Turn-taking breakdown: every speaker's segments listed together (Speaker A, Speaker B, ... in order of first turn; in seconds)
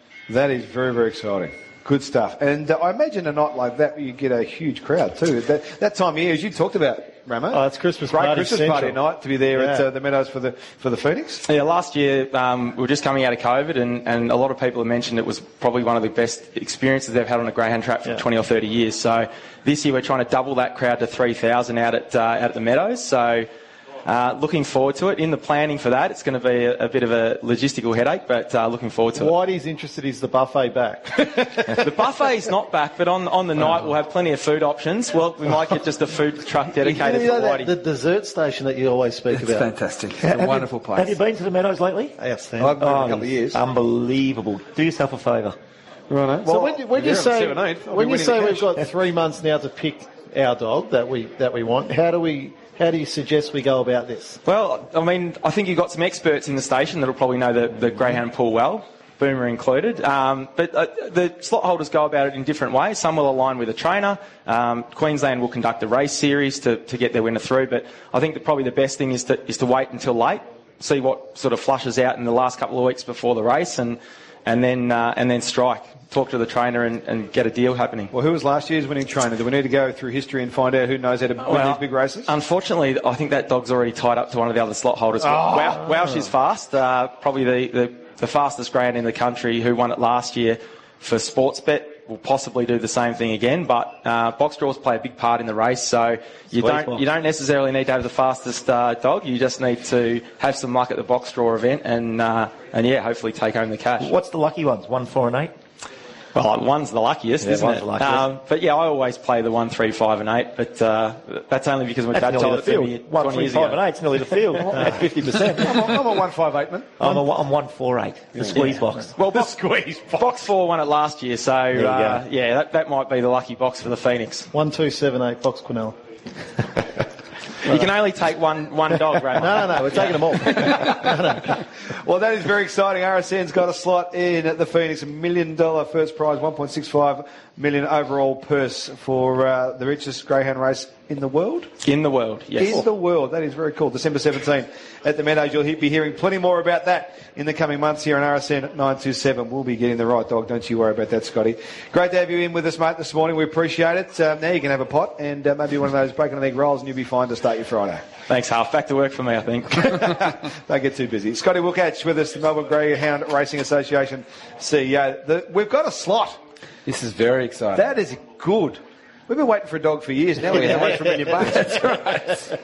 Speaker A: 0.3-11.4, 42.6-43.6, 46.1-48.7, 78.1-82.3, 85.2-85.8, 115.4-117.2, 119.3-120.4, 132.0-141.7, 142.6-158.0, 159.8-166.4, 167.8-171.8
Speaker B: 7.5-9.0, 9.5-9.9, 29.1-31.8, 36.8-39.7, 42.2-42.5, 46.5-54.4, 124.5-126.0, 129.3-131.6
Speaker C: 11.5-23.5, 24.1-29.4, 31.8-37.7, 54.5-78.1, 81.4-104.1, 106.3-113.8, 118.5-119.6, 120.2-124.5, 127.6-130.8, 141.8-142.8, 158.3-160.2
Speaker D: 39.3-41.2, 166.8-167.8, 170.5-172.5
Speaker E: 40.2-45.5, 96.5-97.0, 104.0-105.5, 107.4-108.3, 112.1-115.8, 117.0-119.1, 121.7-122.2